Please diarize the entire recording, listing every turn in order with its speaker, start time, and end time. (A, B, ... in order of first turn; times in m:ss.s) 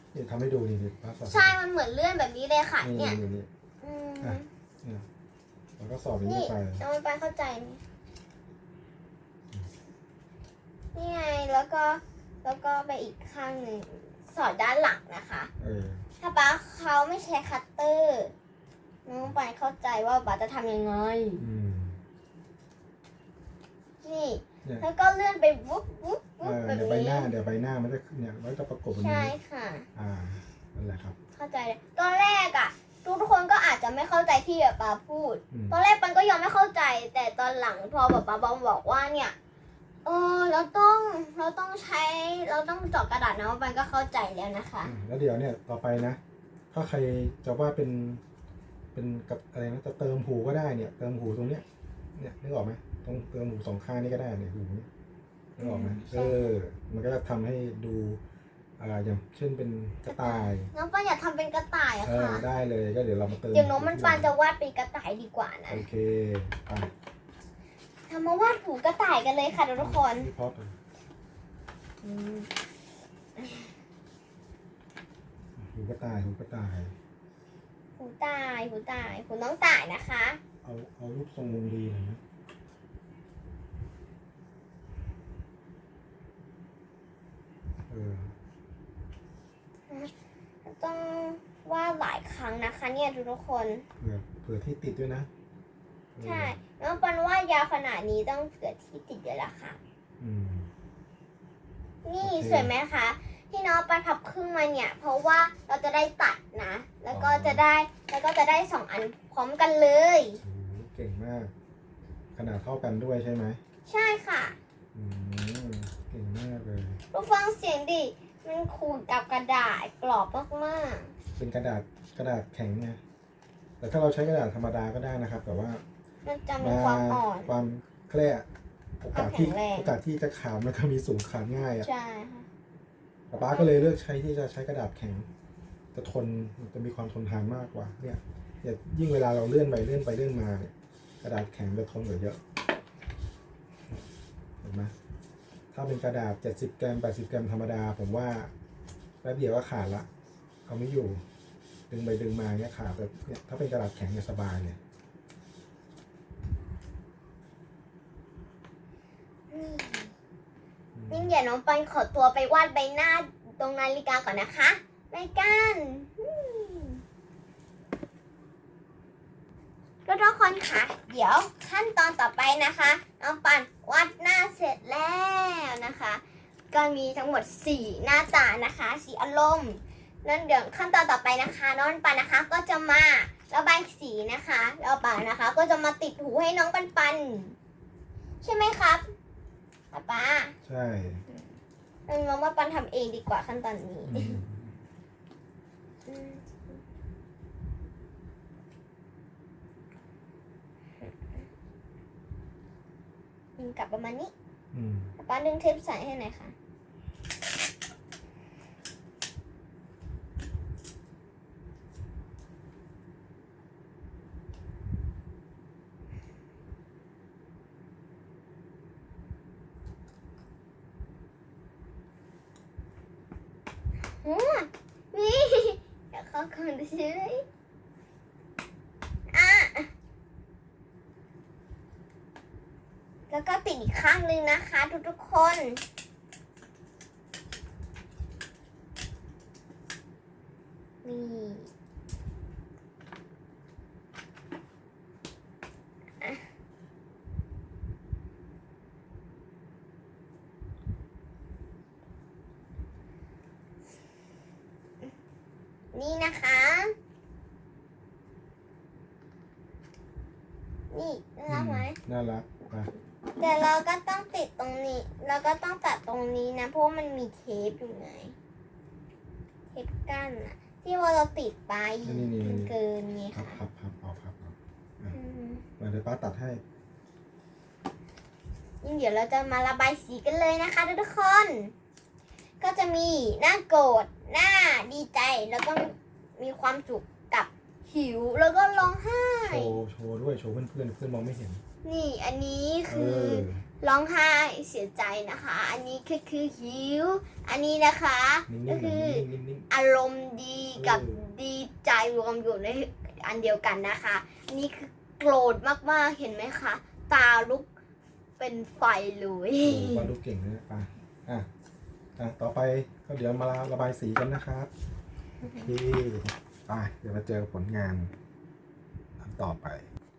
0:00.1-0:01.6 A
0:01.3-0:03.2 B
0:02.8-0:03.5 A
0:03.8-0:04.5 B
0:04.2-0:05.0 A
0:05.8-0:06.8 A
0:06.2-0:07.8 B
0:10.9-0:15.5 B
0:15.6-0:16.0 A
0:16.2-0:18.3 B
0:19.1-0:21.4 B
0:21.4-0:22.0 A
0:24.0-0:27.3 B
0:26.4-0:29.4 A
0:29.0-0:29.9 B
0:30.0-0:31.2 A
0:31.4-0:39.4 B
0:35.5-0:35.8 A
0:40.0-0:44.9 B
0:44.8-0:46.2 A
0:46.7-0:48.2 A
0:48.9-0:54.9 A
0:55.6-0:58.2 A
0:55.6-0:56.5 B
0:58.8-1:00.7 A
1:00.1-1:02.4 B
1:02.0-1:04.3 A
1:03.5-1:05.8 B
1:05.7-1:06.9 A
1:08.1-1:10.3 B
1:09.8-1:10.8 A
1:12.0-1:12.5 B
1:13.4-1:13.7 B
1:15.6-1:16.9 A
1:18.0-1:20.4 B
1:20.6-1:22.2 A
1:27.9-1:28.3 A
1:30.6-1:33.8 B
1:34.0-1:35.3 A
1:36.2-1:36.6 A
1:36.2-1:39.8 B
1:40.2-1:40.7 A
1:42.0-1:50.4 B
1:42.2-1:42.7 A
1:47.1-1:47.6 A
1:50.4-1:51.5 A
1:52.4-1:53.6 A
1:53.9-1:54.6 B
1:54.9-1:57.0 A
1:57.1-2:01.1 B
2:01.4-2:03.0 A
2:03.8-2:05.8 A
2:06.2-2:07.5 B
2:06.6-2:08.5 A
2:09.0-2:11.9 A
2:09.1-2:09.9 B
2:11.8-2:12.5 B
2:13.3-2:15.3 A
2:13.3-2:14.0 B
2:15.9-2:22.4 A
2:24.6-2:24.9 A
2:25.7-2:28.5 A
2:29.2-2:30.1 A
2:30.7-2:31.2 A
2:31.9-2:34.8 A
2:39.5-2:40.1 B
2:41.0-2:41.3 A
2:41.1-2:47.0 B
2:50.1-3:07.6 B
3:08.4-3:09.0 B
3:09.9-3:10.5 B
3:10.6-3:11.2 A
3:12.1-3:14.4 B
3:14.0-3:14.8 A
3:16.1-3:16.8 B
3:23.6-3:24.3 B
3:24.7-3:25.1 A
3:25.2-3:26.5 B
3:44.2-3:47.4 B
3:49.3-3:49.9 B
3:53.3-3:55.8 B
4:01.0-4:01.7 B
4:06.2-4:06.5 B
4:15.9-4:16.9 B
4:20.9-4:22.0 B
4:21.5-4:22.9 A
4:23.4-4:28.4 B
4:29.7-4:33.6 B
4:32.0-4:32.8 A
4:33.3-4:35.2 A
4:35.1-4:35.6 B
4:35.8-4:36.6 A
4:38.8-4:41.7 B
4:42.6-4:49.8 B
4:49.5-4:51.6 A
4:51.8-5:07.7 B
4:52.9-4:53.6 A
4:58.5-4:59.7 A
5:00.8-5:01.2 A
5:08.4-5:10.1 B
5:09.6-5:11.5 A
5:12.2-5:14.7 A
5:15.4-5:18.1 A
5:19.2-5:19.9 A